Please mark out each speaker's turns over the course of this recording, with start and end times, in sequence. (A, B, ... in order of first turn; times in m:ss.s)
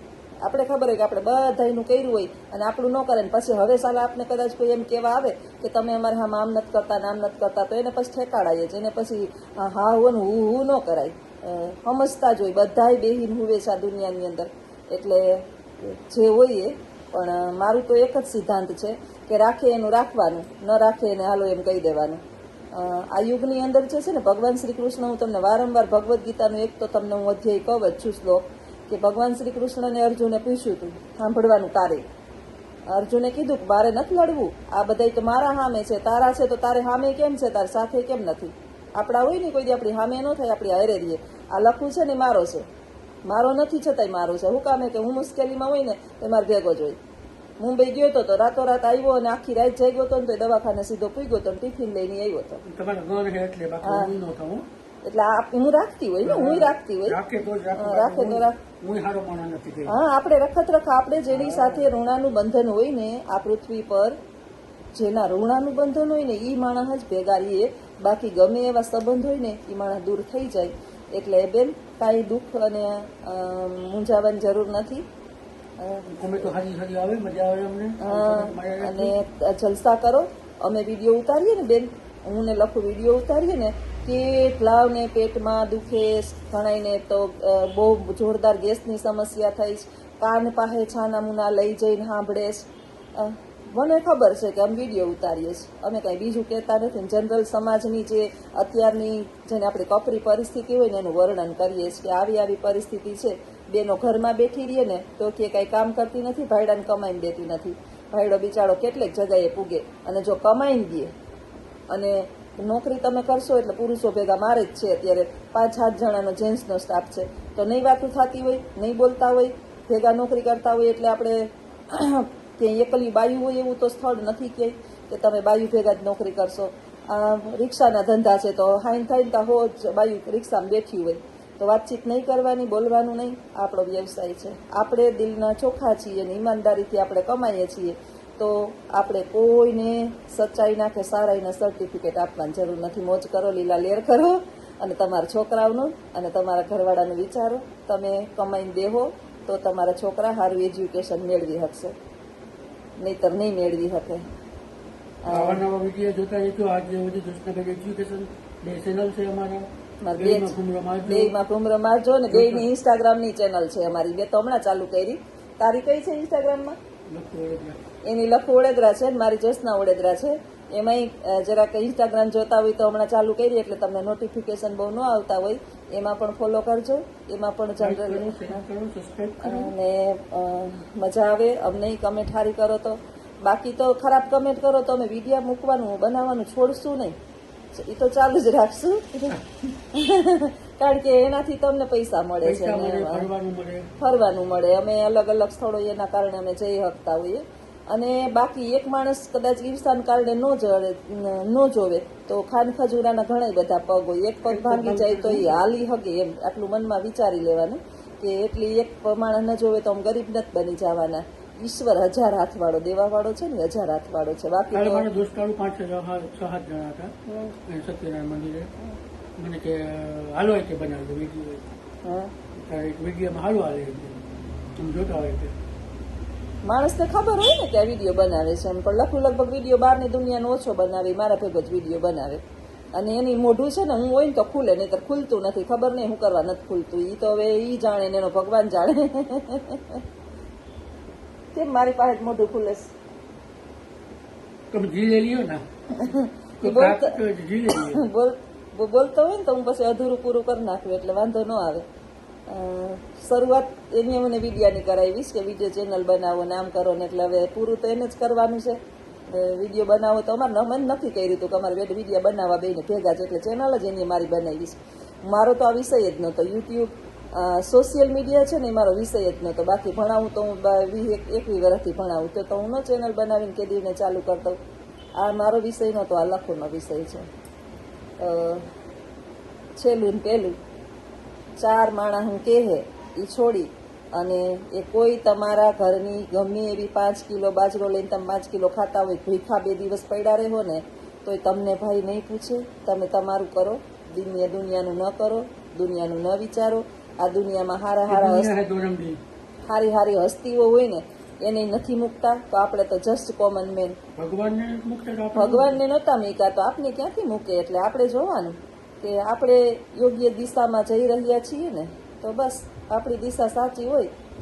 0:00.4-0:22.2 A
0:22.7-0:32.0 A
0:32.9-0:42.6 A
0:43.2-0:47.0 A
0:47.6-0:52.6 A
0:52.6-0:54.6 B
0:53.8-0:54.1 A
0:55.0-0:57.2 A
0:56.2-0:59.9 B
0:57.8-0:58.6 A
0:59.9-1:04.2 A
1:01.3-1:01.9 B
1:04.9-1:15.0 A
1:15.8-1:16.5 A
1:16.0-1:19.1 B
1:18.0-1:51.1 A
1:51.9-2:31.9 A
2:33.0-2:34.2 A
2:35.2-2:35.6 A
2:35.3-2:41.3 B
2:40.0-2:40.5 A
2:41.1-2:46.8 A
2:42.3-2:42.6 B
2:47.1-2:47.8 B
2:48.1-2:58.6 A
2:57.8-2:59.7 B
2:59.4-3:07.1 A
3:07.7-3:13.3 A
3:12.4-3:13.9 B
3:14.0-3:35.1 A
3:24.4-3:25.6 B
3:34.7-3:38.7 B
3:39.4-3:41.6 B
3:42.0-3:42.3 A
3:42.6-3:44.2 B
3:44.8-3:45.5 B
3:46.6-3:52.4 A
3:52.9-4:00.0 A
4:01.5-4:02.9 A
4:04.7-4:05.6 B
4:05.9-4:07.2 A
4:06.6-4:08.0 B
4:07.7-4:11.8 A
4:12.5-4:34.6 A
4:35.2-4:37.3 A
4:38.2-4:38.7 A
4:39.8-4:40.6 A
4:41.6-4:58.5 A
4:58.1-4:59.2 B
4:59.7-5:04.0 A
5:04.2-5:05.8 B
5:05.3-5:14.1 A